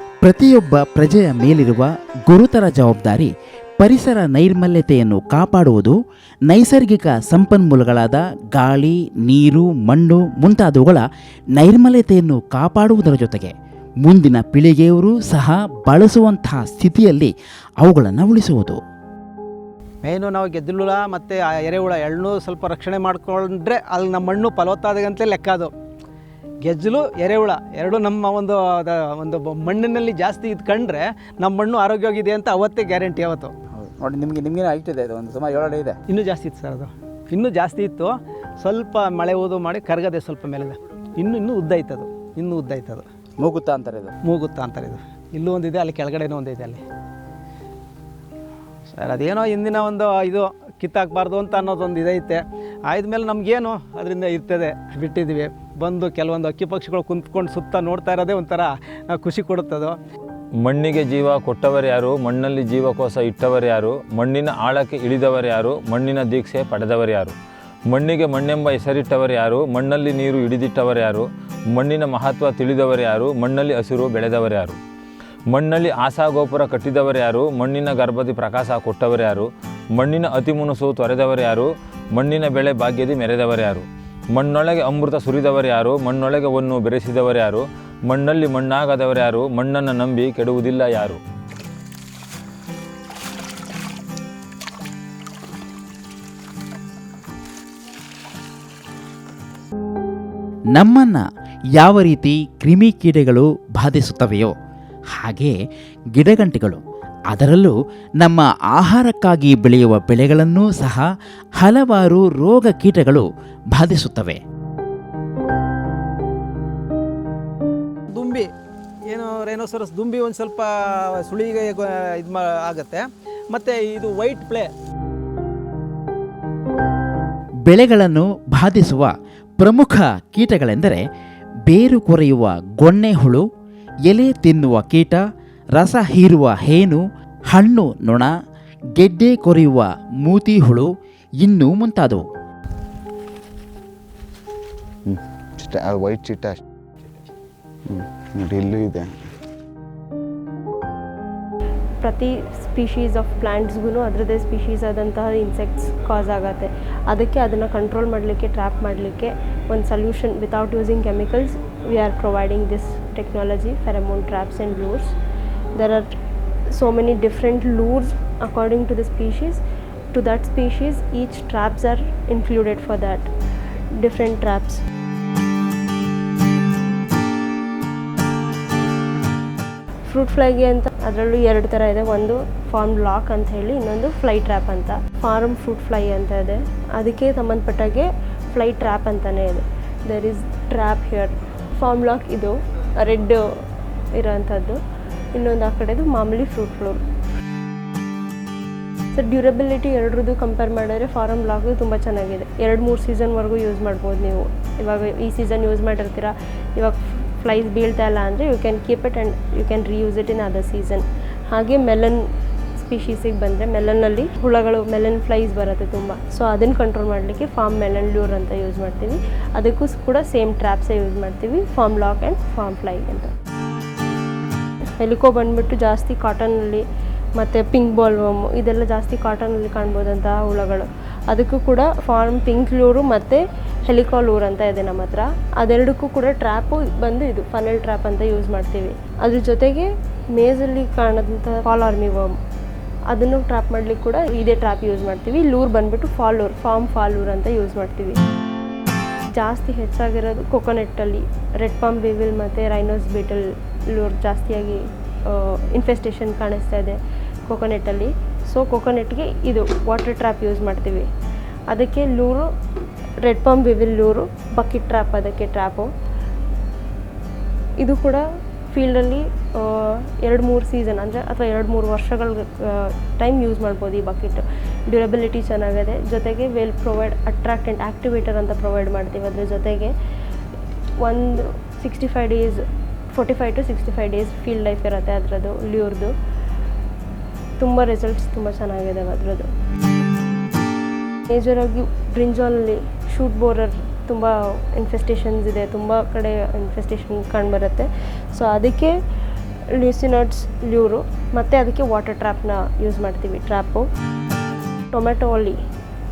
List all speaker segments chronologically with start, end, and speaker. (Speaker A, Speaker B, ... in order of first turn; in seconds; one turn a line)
Speaker A: 0.2-5.9
Speaker A: 6.5-18.8
Speaker B: 20.0-25.7
Speaker B: 26.6-33.5
Speaker C: 33.7-36.0
Speaker B: 36.1-43.0
Speaker C: 43.4-44.1
Speaker B: 44.2-46.8
Speaker B: 48.9-60.0
Speaker D: 60.6-67.3
Speaker D: 67.9-74.8
Speaker D: 75.5-91.2
Speaker A: 100.7-101.2
Speaker A: 101.8-104.5
Speaker A: 105.2-105.5
Speaker A: 106.1-111.0
Speaker A: 111.6-114.4
Speaker B: 118.1-118.5
Speaker B: 119.1-124.7
Speaker A: 127.7-131.0
Speaker A: 131.7-133.4
Speaker A: 134.1-135.2
Speaker A: 135.8-138.3
Speaker A: 139.0-140.9
Speaker A: 141.4-142.2
Speaker E: 145.1-146.6
Speaker E: 147.9-149.1
Speaker F: 152.0-165.1
Speaker F: 165.7-166.1
Speaker F: 166.7-173.3
Speaker F: 173.9-174.8
Speaker F: 180.1-193.4
Speaker F: 194.1-194.8
Speaker F: 195.3-197.0
Speaker F: 199.1-212.2
Speaker F: 212.8-223.3
Speaker F: 225.0-226.8
Speaker F: 227.3-242.4
Speaker F: 243.1-248.2
Speaker F: 249.3-261.1
Speaker F: 261.7-262.5
Speaker F: 263.2-265.9
Speaker F: 267.8-279.9
Speaker F: 281.0-286.1
Speaker F: 287.6-289.5
Speaker F: 291.3-298.9
Speaker F: 299.7-303.9
Speaker F: 304.9-305.6